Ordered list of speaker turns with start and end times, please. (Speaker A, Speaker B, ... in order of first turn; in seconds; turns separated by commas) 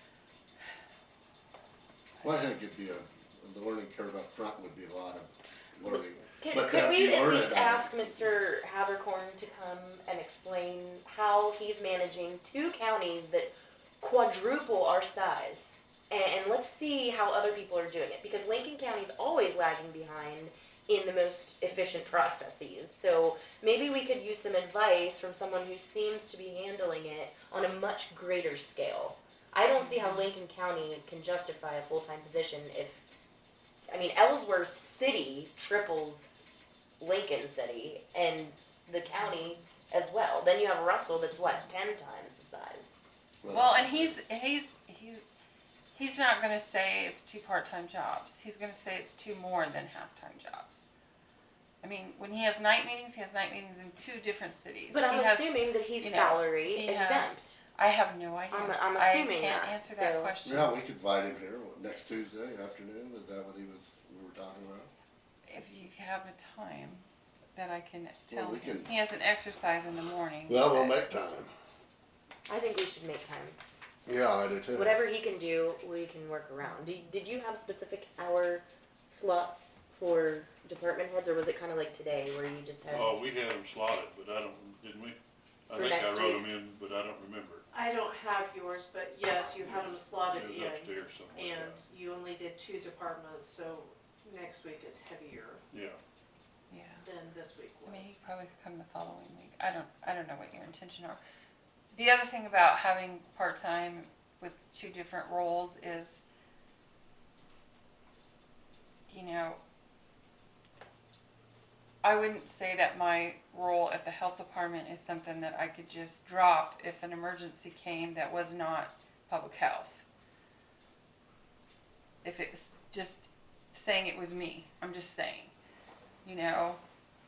Speaker A: 2.2-8.4, Speaker B: 6.4-33.0, Speaker C: 29.8-30.3, Speaker B: 33.9-36.4, Speaker B: 37.0-42.9, Speaker A: 43.4-44.1, Speaker C: 43.5-45.2, Speaker C: 45.9-50.9, Speaker C: 51.8-60.7, Speaker B: 54.9-57.5, Speaker B: 58.5-60.3, Speaker A: 60.4-64.9, Speaker C: 65.5-71.2, Speaker A: 68.3-68.9, Speaker A: 70.5-71.5, Speaker B: 72.5-73.5, Speaker A: 74.0-75.0, Speaker B: 74.7-83.1, Speaker D: 82.9-87.6, Speaker B: 85.7-86.4, Speaker E: 87.7-95.6, Speaker D: 89.6-91.8, Speaker D: 95.7-96.0, Speaker C: 96.7-97.0, Speaker E: 97.0-98.2, Speaker C: 97.8-101.2, Speaker C: 101.9-106.2, Speaker C: 109.1-109.6, Speaker C: 112.0-120.0, Speaker C: 122.2-125.5, Speaker C: 126.2-126.8